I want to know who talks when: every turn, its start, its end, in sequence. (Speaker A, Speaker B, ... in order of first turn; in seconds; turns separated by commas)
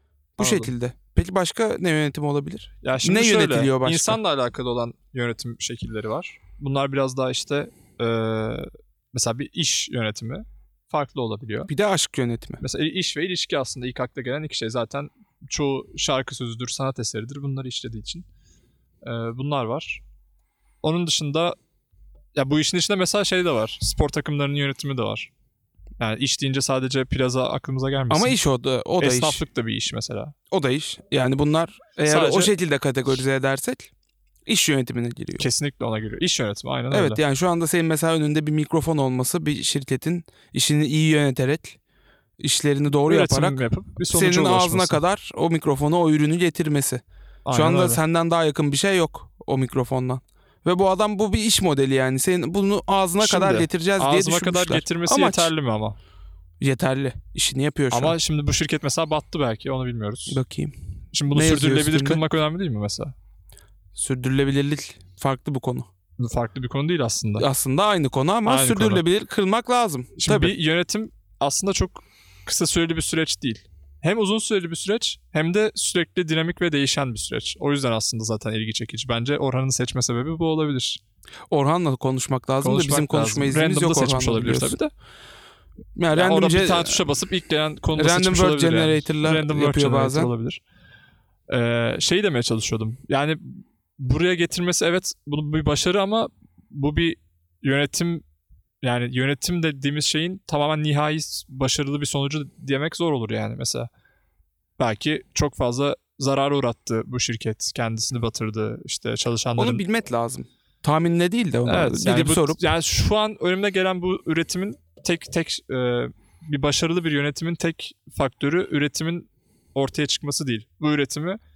Speaker A: 0.4-4.2, Speaker B: 0.4-0.7, Speaker B: 2.8-11.7, Speaker A: 11.7-12.6, Speaker B: 12.6-18.2, Speaker B: 19.0-20.0, Speaker B: 20.8-21.6, Speaker B: 22.3-25.3, Speaker B: 26.0-28.4, Speaker A: 28.1-29.4, Speaker B: 29.0-30.3, Speaker A: 30.5-33.9, Speaker B: 32.0-32.5, Speaker A: 34.5-35.5, Speaker B: 35.4-37.2, Speaker A: 36.9-41.8, Speaker A: 42.4-43.6, Speaker B: 43.0-45.0, Speaker A: 44.1-55.5, Speaker B: 47.4-48.0, Speaker B: 53.2-56.0, Speaker A: 56.6-58.1, Speaker B: 57.9-60.4, Speaker A: 60.3-60.8, Speaker B: 61.1-63.1, Speaker A: 61.3-62.2, Speaker A: 63.9-65.9, Speaker B: 66.2-67.5, Speaker A: 67.4-70.5, Speaker B: 68.4-69.0, Speaker B: 70.2-81.0, Speaker A: 81.5-84.8, Speaker B: 82.6-84.9, Speaker A: 86.0-87.0, Speaker B: 86.1-90.6, Speaker A: 88.0-90.3, Speaker B: 91.5-98.2, Speaker B: 98.8-103.9, Speaker B: 104.8-109.8, Speaker A: 109.6-112.6, Speaker B: 111.7-121.4